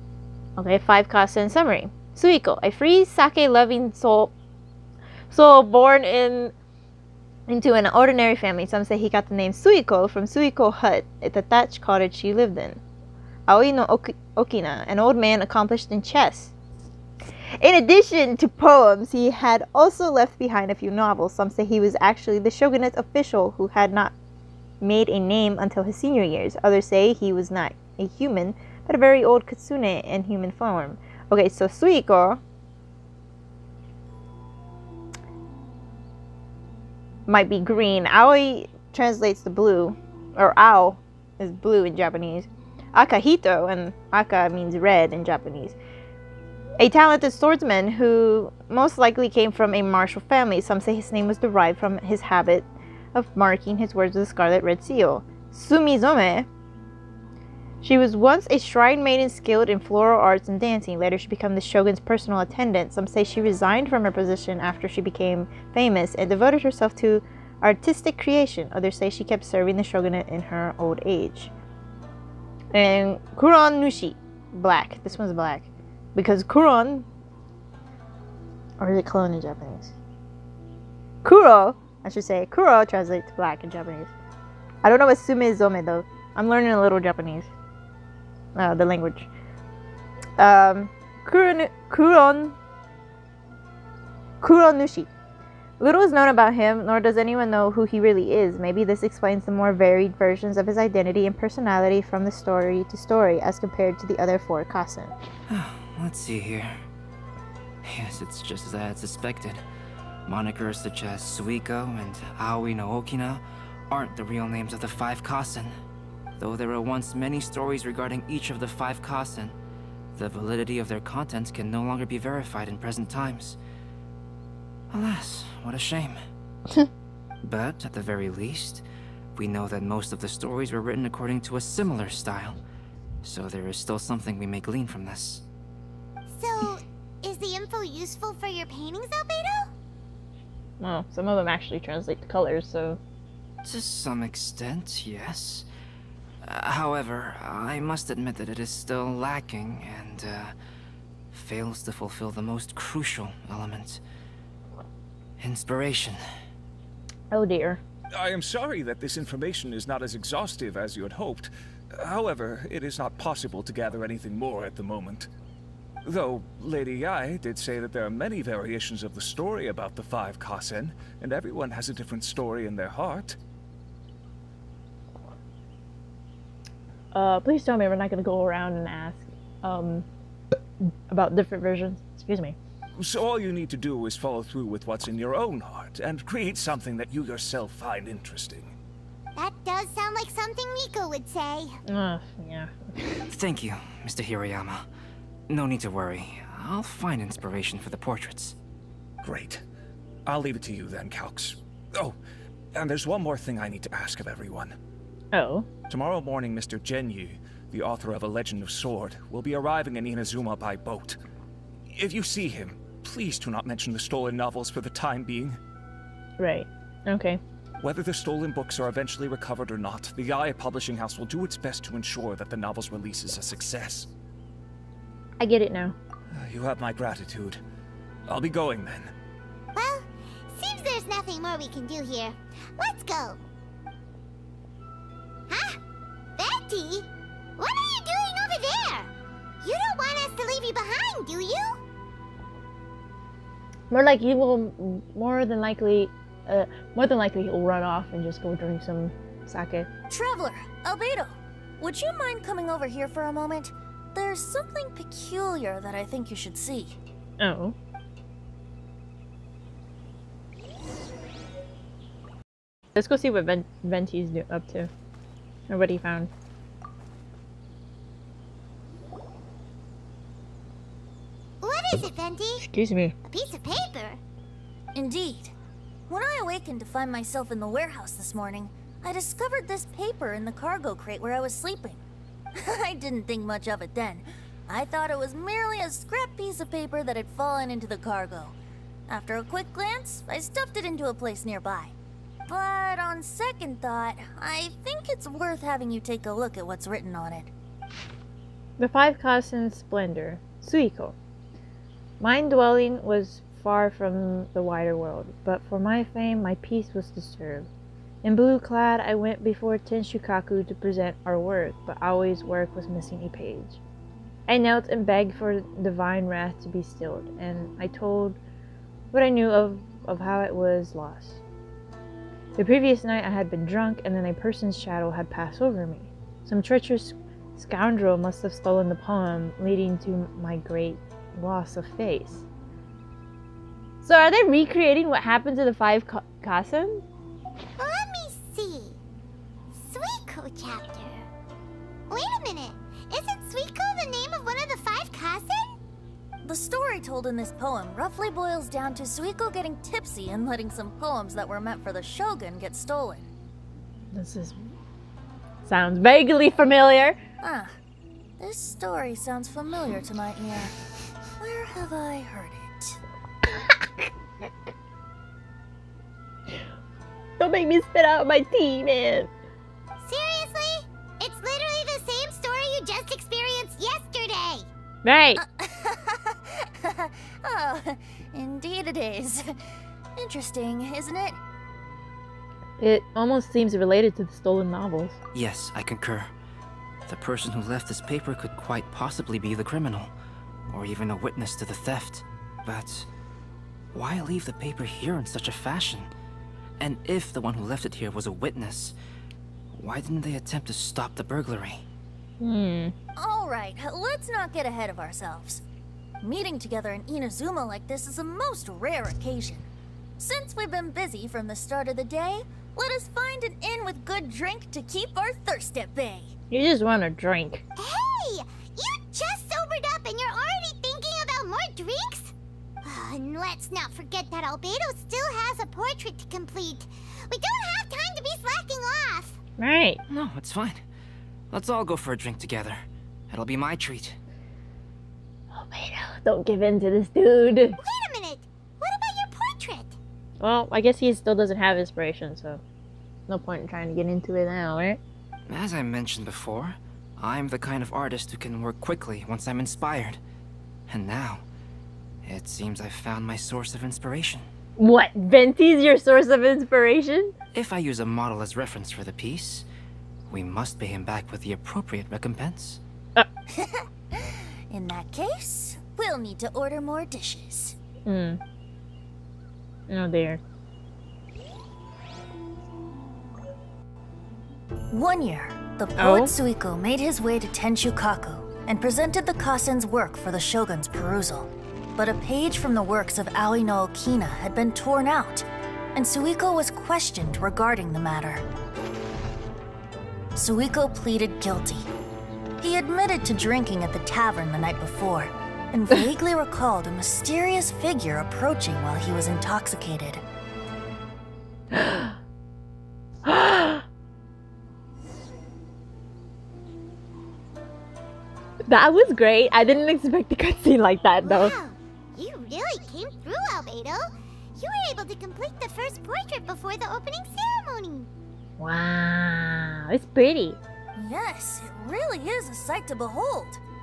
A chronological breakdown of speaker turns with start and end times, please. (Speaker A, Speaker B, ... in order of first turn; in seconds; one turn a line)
Speaker A: 0.6-4.3
Speaker A: 5.3-6.5
Speaker A: 7.5-12.8
Speaker A: 13.5-16.5
Speaker A: 17.6-24.1
Speaker A: 24.8-32.4
Speaker A: 37.3-45.8
Speaker A: 46.8-56.5
Speaker A: 57.8-71.5
Speaker A: 72.7-77.0
Speaker A: 78.8-79.9
Speaker A: 81.2-84.1
Speaker A: 84.8-87.5
Speaker A: 88.5-89.3
Speaker A: 90.4-92.5
Speaker A: 94.4-95.1
Speaker A: 95.8-105.1
Speaker B: 105.5-106.8
Speaker B: 107.8-109.6
Speaker B: 110.2-115.8
Speaker B: 116.4-119.5
Speaker B: 120.1-123.6
Speaker B: 124.9-126.2
Speaker B: 127.4-132.6
Speaker B: 133.2-135.4
Speaker C: 136.3-139.7
Speaker A: 140.8-143.0
Speaker B: 143.6-145.7
Speaker B: 146.4-150.5
Speaker B: 151.3-154.0
Speaker B: 155.4-156.2
Speaker A: 157.3-157.8
Speaker D: 158.1-165.3
Speaker D: 166.0-173.4
Speaker A: 177.1-180.1
Speaker A: 181.1-182.6
Speaker D: 183.0-188.7
Speaker C: 189.3-191.8
Speaker A: 191.9-192.7
Speaker B: 193.3-194.9
Speaker B: 195.5-198.6
Speaker D: 199.2-199.6
Speaker D: 200.2-202.2
Speaker D: 202.7-204.7
Speaker A: 205.3-205.7
Speaker D: 205.9-211.2
Speaker D: 211.9-215.6
Speaker A: 216.4-217.4
Speaker D: 217.8-224.1
Speaker A: 225.4-225.9
Speaker D: 226.3-227.6
Speaker D: 228.3-229.1
Speaker C: 229.7-233.4
Speaker C: 235.5-235.8
Speaker C: 236.4-239.1
Speaker C: 239.6-241.8
Speaker A: 243.9-249.9
Speaker E: 250.1-257.0
Speaker A: 257.4-257.7
Speaker A: 262.9-264.9
Speaker A: 265.7-266.3
Speaker C: 271.6-272.6
Speaker A: 272.7-273.1
Speaker C: 273.2-274.2
Speaker E: 274.9-275.5
Speaker E: 276.1-282.0
Speaker E: 282.6-288.6
Speaker E: 289.1-291.9
Speaker E: 292.5-297.5
Speaker A: 298.8-301.1
Speaker A: 302.2-307.7
Speaker A: 308.2-313.8
Speaker A: 314.5-318.4
Speaker A: 319.1-321.4
Speaker A: 322.6-332.4
Speaker A: 334.0-337.0
Speaker C: 337.8-339.0
Speaker C: 339.7-341.3
Speaker C: 342.1-345.8
Speaker E: 346.4-353.3
Speaker A: 354.1-354.6
Speaker A: 355.6-357.2
Speaker E: 357.4-357.7
Speaker E: 358.4-360.7
Speaker E: 361.4-363.0
Speaker A: 363.5-364.5
Speaker A: 367.4-369.3
Speaker C: 370.0-374.7
Speaker A: 375.0-375.4
Speaker E: 375.4-379.5
Speaker E: 380.2-381.4
Speaker A: 382.8-385.2
Speaker B: 385.3-386.3
Speaker B: 387.1-390.1
Speaker B: 390.7-393.1
Speaker B: 393.9-396.1
Speaker B: 396.8-398.9
Speaker B: 399.7-401.9
Speaker A: 402.4-402.9
Speaker E: 403.1-405.6
Speaker E: 406.2-409.7
Speaker E: 410.2-416.3
Speaker A: 416.5-417.6
Speaker C: 417.8-429.4
Speaker A: 429.6-430.0
Speaker B: 430.1-430.8
Speaker B: 431.5-434.2
Speaker A: 435.5-437.8
Speaker C: 437.8-440.0
Speaker A: 440.4-442.6
Speaker A: 443.3-445.0
Speaker B: 445.5-450.2
Speaker B: 450.9-451.4
Speaker B: 452.2-454.4
Speaker A: 454.8-457.3
Speaker B: 457.5-459.6
Speaker B: 460.3-462.8
Speaker E: 463.5-467.8
Speaker A: 468.1-468.4
Speaker A: 469.9-470.4
Speaker E: 474.9-488.4
Speaker A: 476.0-476.3
Speaker E: 490.4-491.9
Speaker E: 492.6-500.2
Speaker A: 501.7-502.1
Speaker A: 503.2-503.8
Speaker A: 508.7-511.5
Speaker C: 511.2-518.1
Speaker A: 518.6-520.6
Speaker E: 521.0-523.6